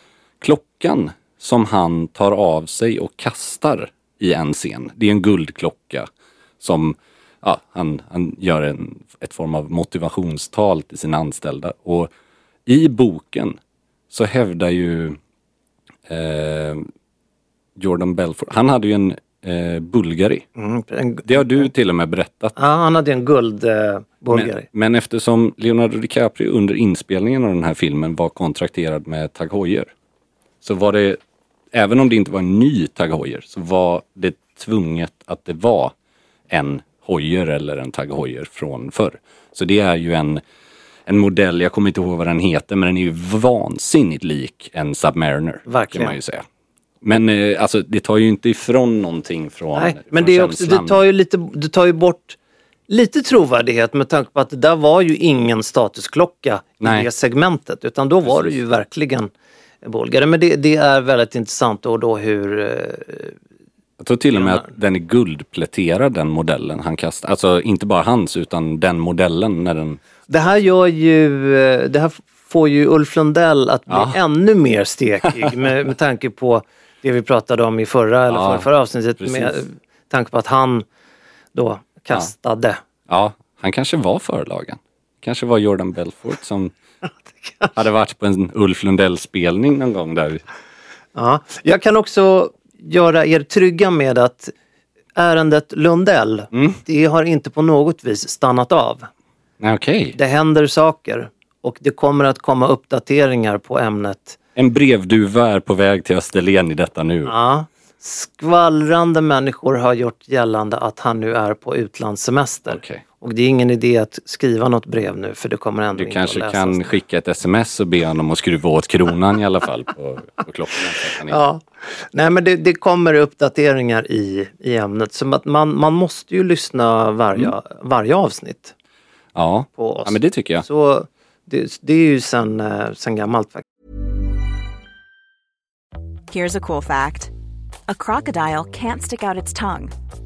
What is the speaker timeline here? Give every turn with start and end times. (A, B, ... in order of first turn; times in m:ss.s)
0:00.4-0:06.1 A
0:06.6-0:12.1 A
0:12.6-0:13.6 A
0:14.1-0:15.2 A
0:16.1-0:16.9 A
0:17.8-0:20.4 A
0:20.6-0:21.7 B
0:21.2-0:22.5 A
0:22.6-0:24.6 B
0:24.3-0:29.9 A
0:30.6-0:31.2 A
0:31.7-0:35.9 A
0:36.5-0:40.4 A
0:41.1-0:46.4 A
0:45.7-0:46.2 B
0:47.0-0:51.0 A
0:49.8-0:52.4 B
0:52.9-0:59.3 B
0:56.8-0:57.1 A
0:58.2-0:58.6 A
0:59.8-1:03.3 B
1:04.0-1:10.5 A
1:04.3-1:04.7 B
1:10.3-1:20.8 B
1:13.9-1:14.2 A
1:18.3-1:18.7 A
1:19.2-1:19.6 A
1:21.5-1:22.8 B
1:23.1-1:26.7 A
1:27.4-1:27.7 B
1:27.7-1:30.4 A
1:31.1-1:34.5 B
1:35.2-1:39.1 B
1:36.5-1:36.8 A
1:39.6-1:40.2 A
1:40.1-1:44.4 B
1:44.6-1:47.3 A
1:47.3-1:56.9 B
1:52.7-1:53.0 A
1:56.0-2:01.4 A
2:01.3-2:08.7 B
2:09.3-2:10.6 A
2:09.8-2:13.6 B
2:16.3-2:17.3 C
2:17.9-2:19.9 C